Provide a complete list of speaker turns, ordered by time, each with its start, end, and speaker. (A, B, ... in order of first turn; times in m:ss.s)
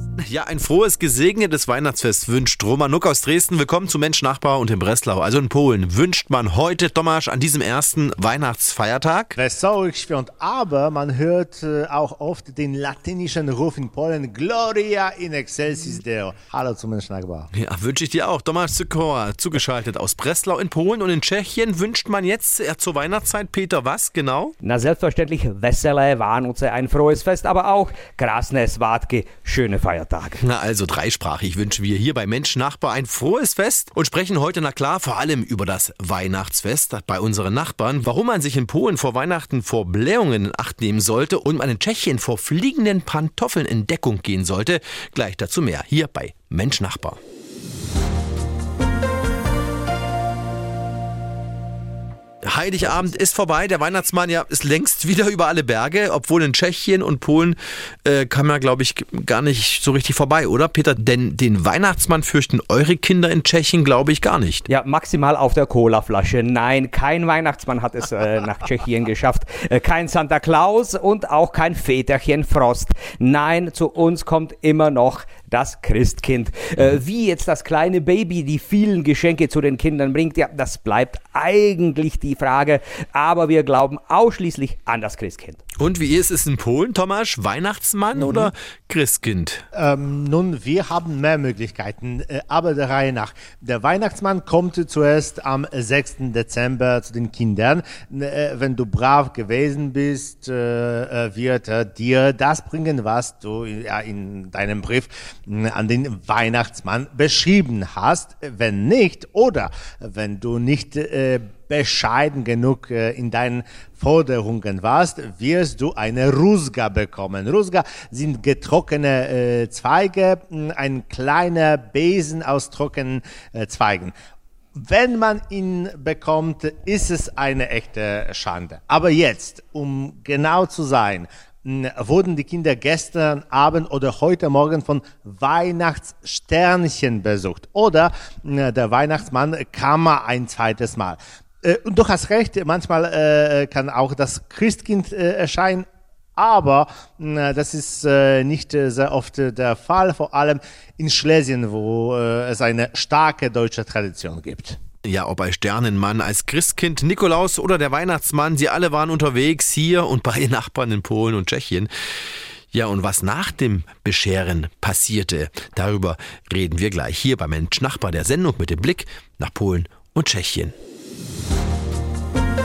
0:00.2-0:09.4 A
0:09.4-0:17.5 B
0:17.5-0:24.5 A
0:24.6-0:30.4 C
0:30.4-0:47.2 A
0:52.4-1:04.6 A
1:04.7-1:25.6 C
1:25.8-1:29.6 A
1:28.1-1:28.5 B
1:29.7-2:04.1 B
2:04.7-2:34.8 B
2:35.0-2:41.9 A
2:42.7-2:50.7 A